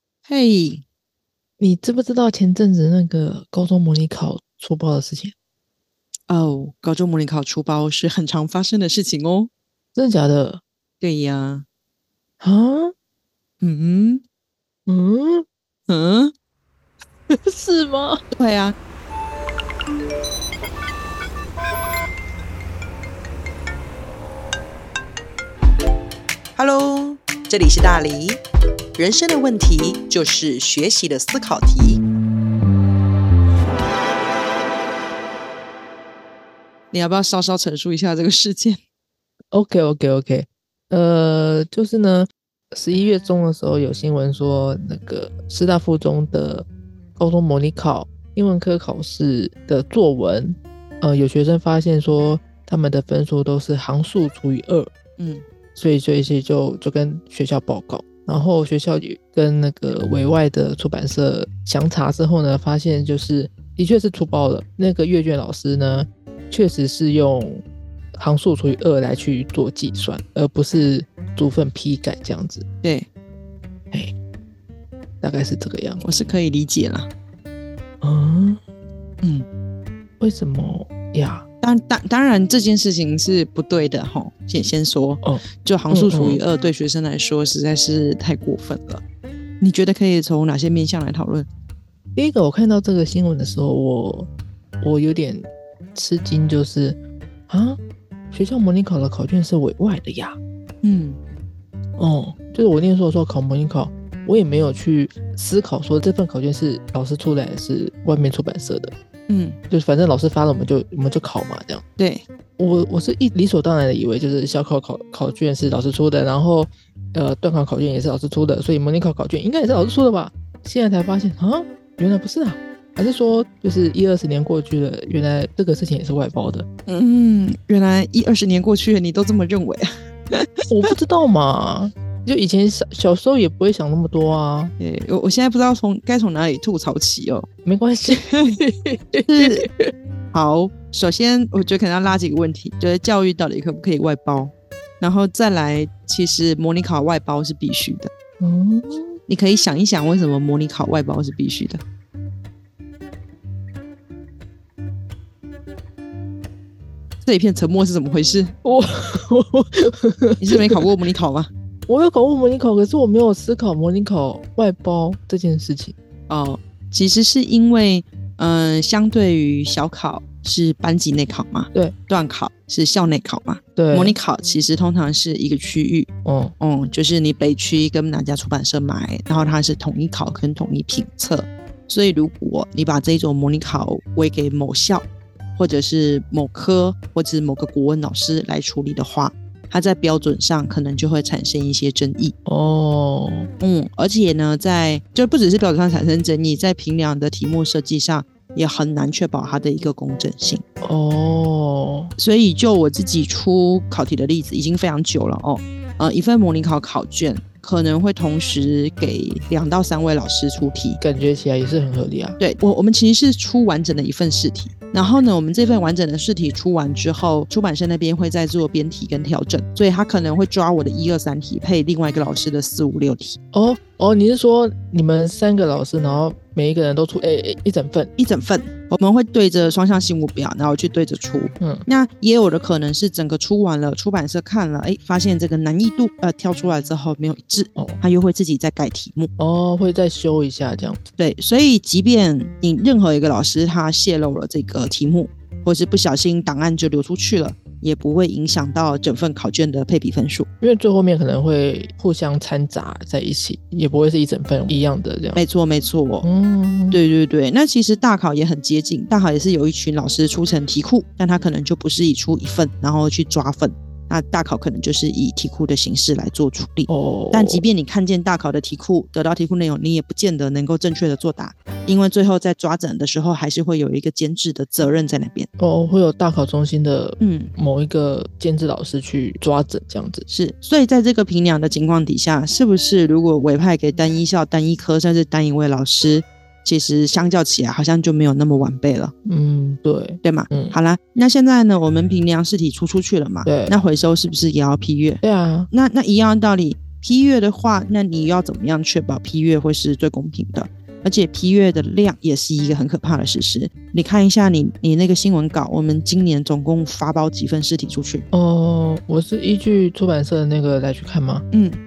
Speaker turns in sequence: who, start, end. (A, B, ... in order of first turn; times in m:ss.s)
0:00.3-0:00.8 A
0:01.6-0:05.3 B
0:06.3-0:09.5 A
0:10.0-0:10.6 B
0:11.0-0:11.6 A
0:12.4-0:12.9 B
0:13.6-0:14.2 A
0:14.9-0:15.4 B
0:15.9-0:16.3 A
0:17.3-0:18.2 B
0:18.3-0:18.8 A
0:26.6-0:28.4 A
0:29.0-0:32.0 A
0:36.9-0:38.8 A
0:39.5-0:54.9 B
0:55.2-0:55.4 A
0:55.8-1:07.6 B
1:08.1-1:12.6 B
1:12.8-1:13.1 A
1:15.2-1:16.1 B
1:16.0-1:17.1 A
1:18.0-1:18.6 B
1:20.2-1:21.4 B
1:21.6-1:29.0 A
1:25.2-1:26.4 B
1:29.6-1:31.5 A
1:32.2-1:34.3 B
1:34.8-1:37.0 B
1:37.5-1:37.8 B
1:38.3-1:40.4 B
1:40.8-1:41.2 A
1:42.0-1:48.9 B
1:49.3-1:49.6 A
1:49.7-1:51.8 B
1:52.0-1:52.2 A
1:52.6-2:06.6 B
2:06.9-2:10.5 A
2:10.7-2:14.7 B
2:14.8-2:17.5 A
2:17.6-2:19.9 B
2:19.3-2:19.6 A
2:20.3-2:28.1 A
2:28.4-2:29.2 B
2:29.3-2:31.8 A
2:37.2-2:38.5 A
2:38.6-2:40.9 B
2:40.4-2:41.5 A
2:41.9-2:45.9 B
2:46.3-3:05.0 A
2:53.8-2:54.2 B
2:56.2-2:56.5 B
3:05.6-3:12.3 A
3:12.4-3:13.5 B
3:13.6-3:20.6 A
3:20.8-3:22.1 B
3:22.2-3:31.0 A
3:31.0-3:32.4 B
3:32.4-3:43.4 A
3:43.5-3:48.1 B
3:48.2-3:59.3 A
3:51.6-3:51.8 B
3:59.4-4:01.0 B
4:01.2-4:10.5 A
4:10.6-4:15.4 B
4:15.4-4:16.3 A
4:16.2-4:17.0 B
4:16.9-4:35.5 A
4:26.9-4:27.6 B
4:35.6-4:40.2 B
4:37.2-4:37.5 A
4:40.3-4:49.1 A
4:49.2-4:50.8 B
4:50.2-5:08.2 A
4:53.4-4:53.8 B
4:55.2-4:55.7 B
5:08.3-5:11.4 B
5:11.5-5:11.8 A